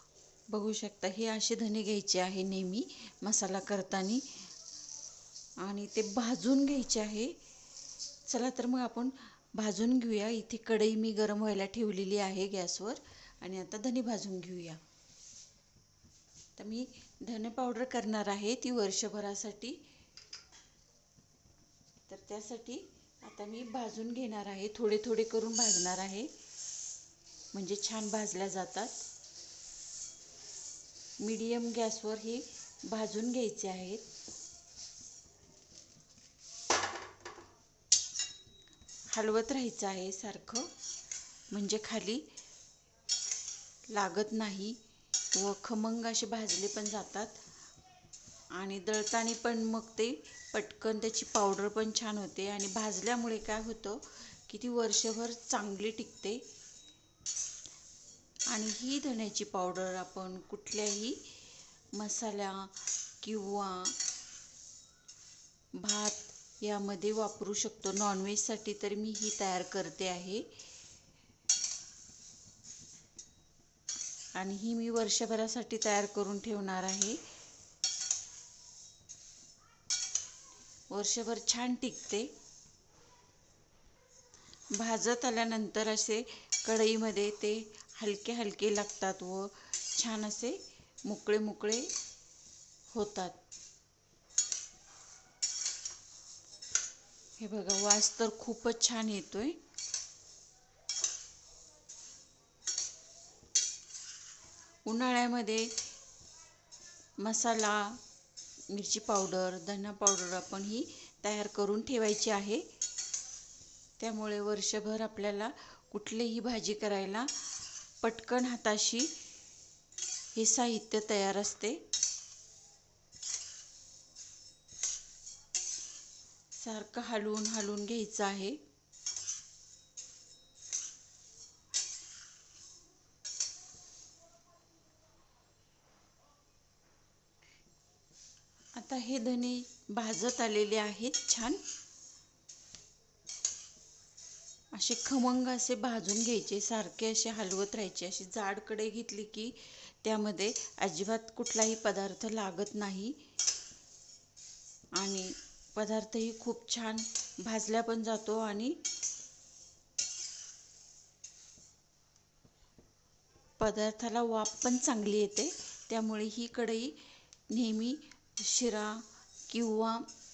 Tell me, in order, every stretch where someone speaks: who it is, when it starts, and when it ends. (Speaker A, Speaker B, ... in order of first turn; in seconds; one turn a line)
Speaker A: 0.5-4.2
Speaker A: 5.6-7.3
Speaker A: 8.3-14.8
Speaker A: 16.6-19.8
Speaker A: 22.1-26.3
Speaker A: 27.5-29.0
Speaker A: 31.2-34.0
Speaker A: 39.1-40.7
Speaker A: 41.5-42.2
Speaker A: 43.9-44.8
Speaker A: 45.3-47.4
Speaker A: 48.5-56.4
Speaker A: 58.5-61.4
Speaker A: 61.9-64.0
Speaker A: 65.7-70.5
Speaker A: 74.3-77.2
Speaker A: 80.9-82.3
Speaker A: 84.7-91.9
Speaker A: 92.9-93.4
Speaker A: 97.4-99.6
Speaker A: 104.8-105.8
Speaker A: 107.2-108.0
Speaker A: 108.7-112.6
Speaker A: 114.0-117.3
Speaker A: 118.0-119.1
Speaker A: 120.3-121.8
Speaker A: 126.5-128.6
Speaker A: 138.7-141.6
Speaker A: 144.7-153.2
Speaker A: 154.9-158.8
Speaker A: 163.6-170.1